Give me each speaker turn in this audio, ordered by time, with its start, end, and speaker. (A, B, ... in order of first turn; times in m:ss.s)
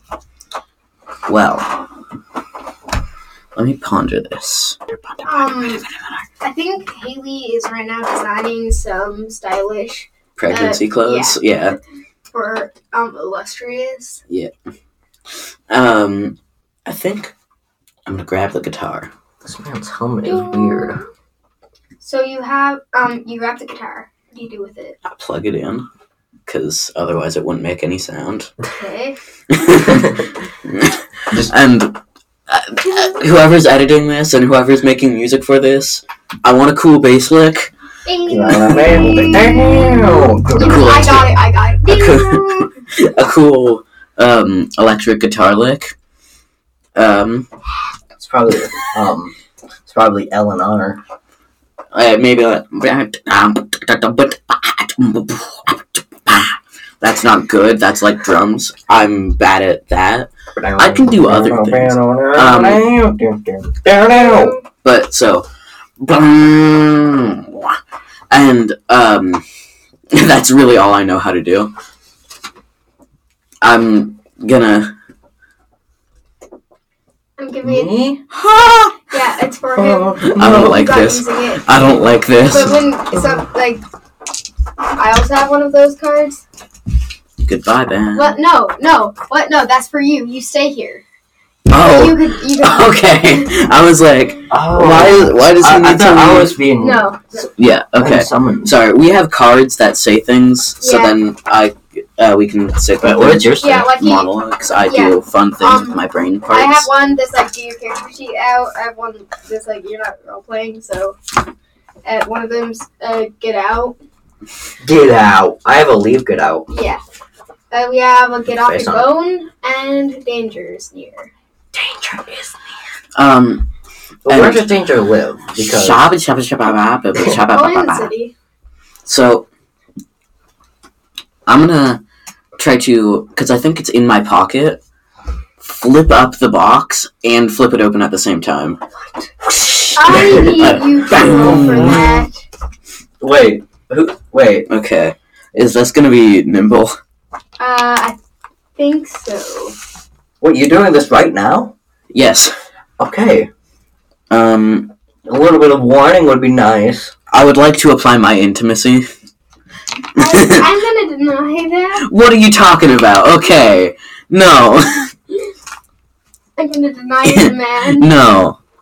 0:01.2-0:01.8 A
0:03.5-0:06.2 A
0:05.2-0:05.8 B
0:06.4-0:11.4 B
0:10.4-0:11.8 A
0:12.3-0:14.2 B
0:15.7-0:17.3 A
0:18.0-0:19.1 A
0:19.4-0:21.0 C
0:20.2-0:21.0 B
0:22.0-0:25.0 B
0:25.0-0:25.8 A
0:26.5-0:28.5 A
0:28.7-0:29.2 B
0:29.5-0:37.7 A
0:38.0-0:42.8 B
0:38.3-0:41.0 C
0:38.5-0:39.2 A
0:40.6-0:45.9 A
0:46.9-0:47.5 A
0:48.1-0:49.3 C
0:49.9-0:51.0 C
0:51.9-1:02.9 A
1:00.6-1:04.6 C
1:04.1-1:04.6 B
1:04.8-1:05.4 A
1:06.0-1:07.8 A
1:08.3-1:09.4 A
1:10.1-1:11.7 A
1:13.6-1:14.9 A
1:17.4-1:17.9 B
1:17.6-1:18.2 C
1:18.3-1:18.9 A
1:19.1-1:21.6 B
1:19.8-1:20.8 C
1:20.2-1:22.8 A
1:22.4-1:23.8 B
1:25.0-1:26.4 B
1:27.4-1:28.3 A
1:28.1-1:31.0 B
1:31.7-1:36.6 A
1:31.7-1:33.5 B
1:34.5-1:37.1 C
1:36.8-1:37.4 B
1:37.5-1:46.9 A
1:38.0-1:38.7 C
1:40.8-1:41.2 B
1:43.0-1:43.9 C
1:43.6-1:44.3 B
1:44.9-1:51.2 B
1:52.0-1:53.9 B
1:54.8-1:56.7 C
1:56.7-1:57.0 B
1:57.7-2:01.3 B
1:58.5-1:59.1 C
2:01.7-2:02.7 C
2:03.1-2:03.6 A
2:04.2-2:06.0 C
2:04.3-2:04.8 A
2:05.5-2:08.1 A
2:07.5-2:08.3 B
2:09.0-2:09.4 A
2:11.4-2:12.0 A
2:12.6-2:14.8 A
2:15.6-2:18.8 A
2:19.4-2:22.2 A
2:19.9-2:22.4 B
2:21.1-2:22.1 C
2:23.2-2:24.7 C
2:24.7-2:27.0 A
2:27.6-2:28.2 B
2:28.8-2:29.8 B
2:30.4-2:31.7 C
2:32.1-2:32.5 A
2:33.0-2:33.5 C
2:34.3-2:34.9 A
2:35.2-2:37.1 C
2:37.3-2:39.1 A
2:40.2-2:40.7 A
2:40.2-2:42.0 B
2:42.0-2:45.1 A
2:46.6-2:48.1 B
2:47.2-2:48.6 A